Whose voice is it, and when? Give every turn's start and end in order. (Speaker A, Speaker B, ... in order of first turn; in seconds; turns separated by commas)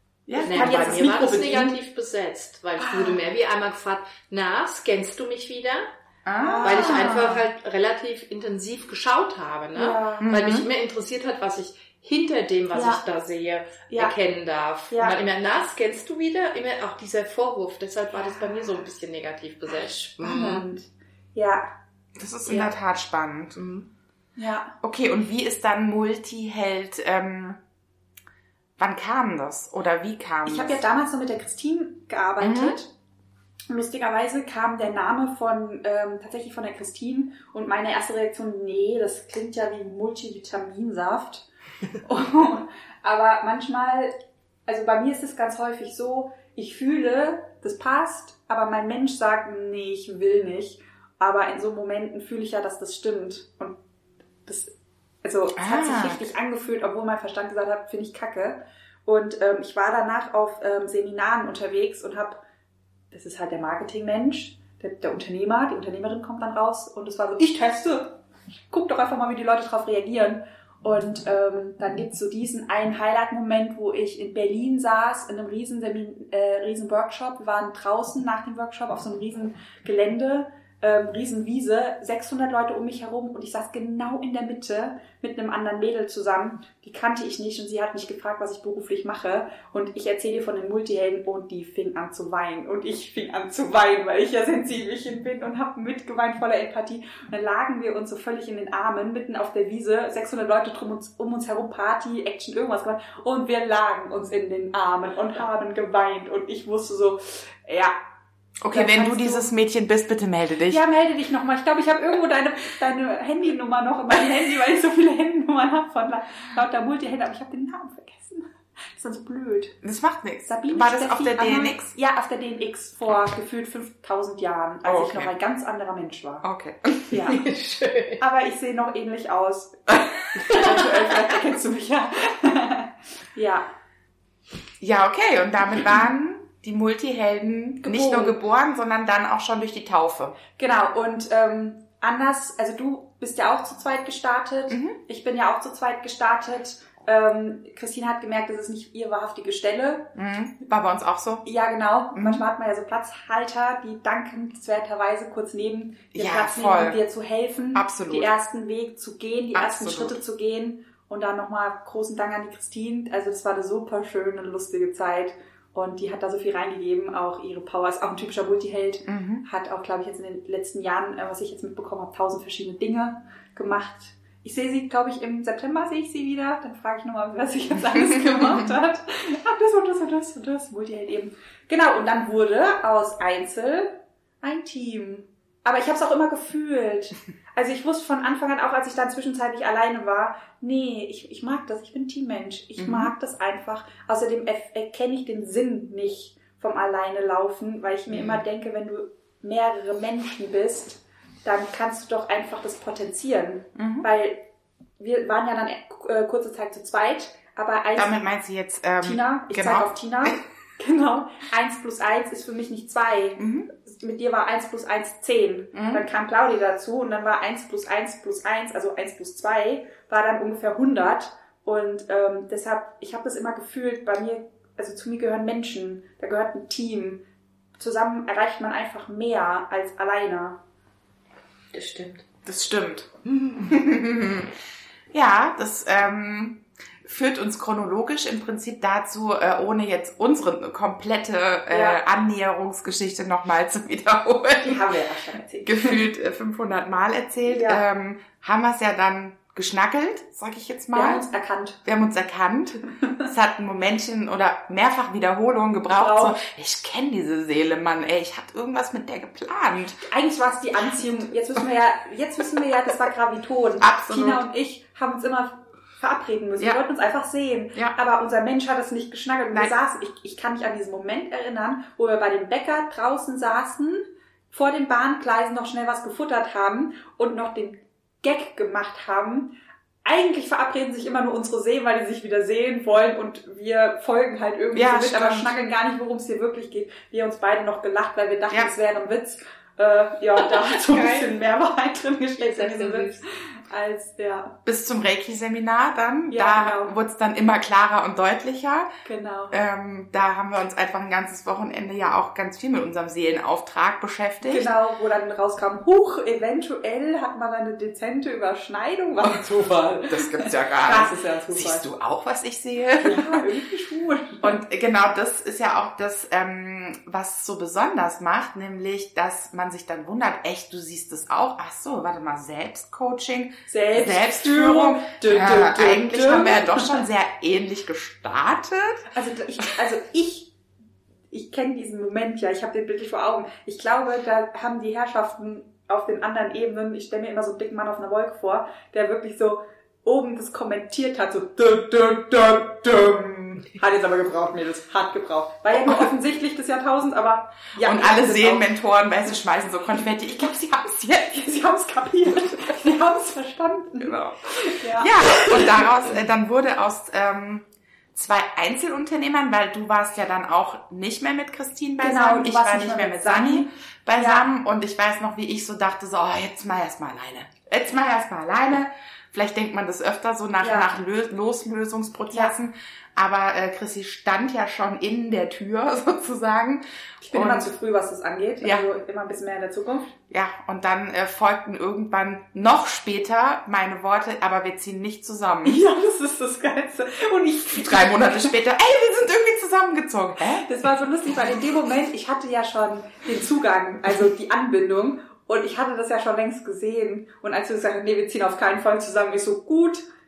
Speaker A: 0.3-1.3, Speaker B: 0.3-1.8, Speaker C: 0.4-5.9, Speaker B: 2.8-3.2, Speaker A: 6.2-7.4, Speaker B: 6.4-7.4, Speaker C: 6.6-20.6, Speaker B: 9.7-10.3, Speaker A: 10.2-10.7, Speaker B: 12.7-13.0, Speaker B: 14.9-15.2, Speaker B: 20.2-21.7, Speaker A: 22.2-23.6, Speaker B: 22.4-22.7, Speaker C: 23.6-23.9, Speaker B: 24.4-24.8, Speaker A: 24.8-27.6, Speaker A: 28.8-30.8, Speaker B: 30.4-32.9, Speaker A: 32.4-32.8, Speaker B: 33.7-41.5, Speaker B: 42.0-44.1, Speaker B: 44.7-53.8, Speaker B: 54.5-62.4, Speaker A: 55.6-56.2, Speaker B: 63.1-107.9, Speaker A: 108.6-110.8, Speaker B: 108.7-109.5, Speaker B: 110.7-119.8, Speaker A: 119.8-121.9, Speaker B: 120.4-126.4, Speaker A: 124.8-125.3, Speaker A: 126.4-127.2, Speaker B: 127.1-127.5, Speaker C: 127.2-128.2, Speaker B: 128.2-133.7, Speaker C: 130.5-131.0, Speaker A: 130.5-130.8, Speaker A: 134.8-140.4, Speaker B: 137.8-138.4, Speaker B: 140.6-150.1, Speaker A: 144.7-145.0, Speaker A: 150.1-151.4, Speaker B: 151.4-204.4, Speaker A: 152.1-152.4, Speaker A: 156.1-157.0, Speaker A: 157.7-158.3, Speaker A: 159.5-160.2, Speaker A: 169.1-169.4, Speaker A: 177.9-178.7, Speaker A: 192.8-193.1, Speaker A: 198.1-198.4, Speaker A: 203.8-204.1, Speaker B: 205.0-208.1, Speaker A: 207.9-210.4, Speaker B: 209.0-227.2, Speaker A: 213.4-213.7, Speaker A: 215.7-216.0, Speaker B: 227.8-230.6, Speaker C: 231.7-232.2, Speaker A: 232.4-234.5, Speaker A: 235.1-244.8, Speaker B: 241.7-242.0, Speaker B: 244.6-246.0, Speaker A: 245.6-251.2, Speaker B: 247.4-247.8, Speaker B: 250.9-251.8, Speaker A: 251.8-260.0, Speaker B: 255.9-256.4, Speaker B: 260.0-279.5, Speaker A: 263.8-264.4, Speaker B: 280.0-294.6, Speaker A: 284.7-285.5, Speaker C: 290.4-291.4, Speaker C: 292.4-293.2, Speaker A: 294.6-298.9, Speaker B: 296.3-296.9, Speaker B: 299.0-299.5, Speaker A: 299.5-304.7, Speaker B: 304.4-311.9, Speaker A: 310.1-313.5, Speaker B: 313.0-314.6, Speaker A: 314.4-329.0, Speaker B: 323.7-327.0, Speaker B: 329.1-330.5, Speaker B: 331.3-348.7, Speaker A: 347.8-351.6, Speaker B: 351.3-355.8, Speaker A: 354.0-354.4, Speaker A: 355.0-377.7, Speaker B: 362.0-364.4, Speaker B: 370.6-370.9, Speaker B: 377.2-380.1, Speaker A: 378.6-378.9, Speaker A: 380.3-385.8, Speaker B: 385.6-388.5, Speaker A: 387.7-390.6, Speaker B: 390.6-400.0